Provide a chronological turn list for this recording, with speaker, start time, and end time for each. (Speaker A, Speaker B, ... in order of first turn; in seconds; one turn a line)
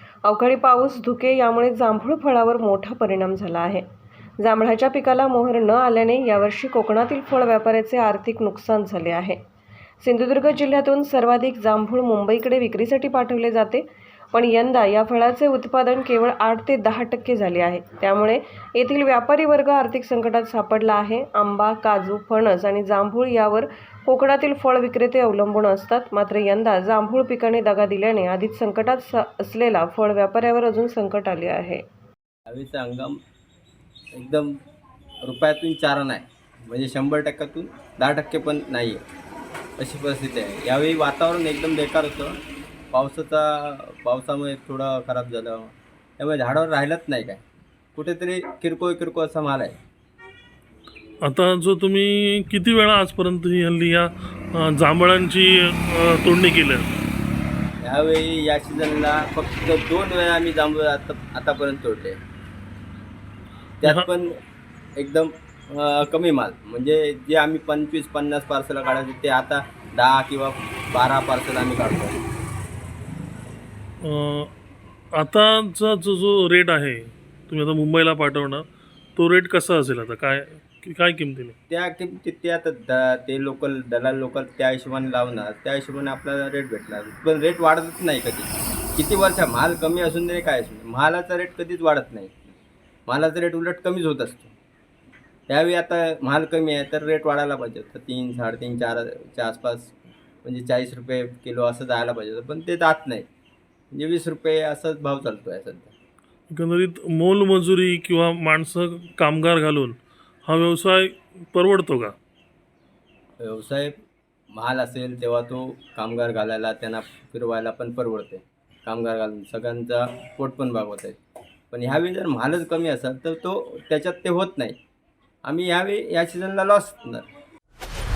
Speaker A: 0.2-3.9
Speaker A: 4.4-9.4
Speaker A: 10.0-31.8
Speaker B: 32.5-33.2
Speaker B: 34.1-34.6
Speaker B: 35.2-39.0
Speaker B: 39.8-42.4
Speaker B: 42.9-47.4
Speaker B: 48.0-49.8
Speaker C: 51.2-56.9
Speaker B: 57.8-62.2
Speaker B: 63.8-64.4
Speaker B: 65.0-72.2
Speaker C: 74.0-74.5
Speaker C: 75.1-78.6
Speaker C: 79.2-81.5
Speaker B: 81.7-92.5
Speaker B: 93.1-94.5
Speaker B: 95.5-103.3
Speaker B: 103.9-105.9
Speaker C: 106.5-112.1
Speaker B: 113.4-114.0
Speaker B: 114.5-121.2
Speaker B: 121.7-124.8
Speaker B: 125.5-127.3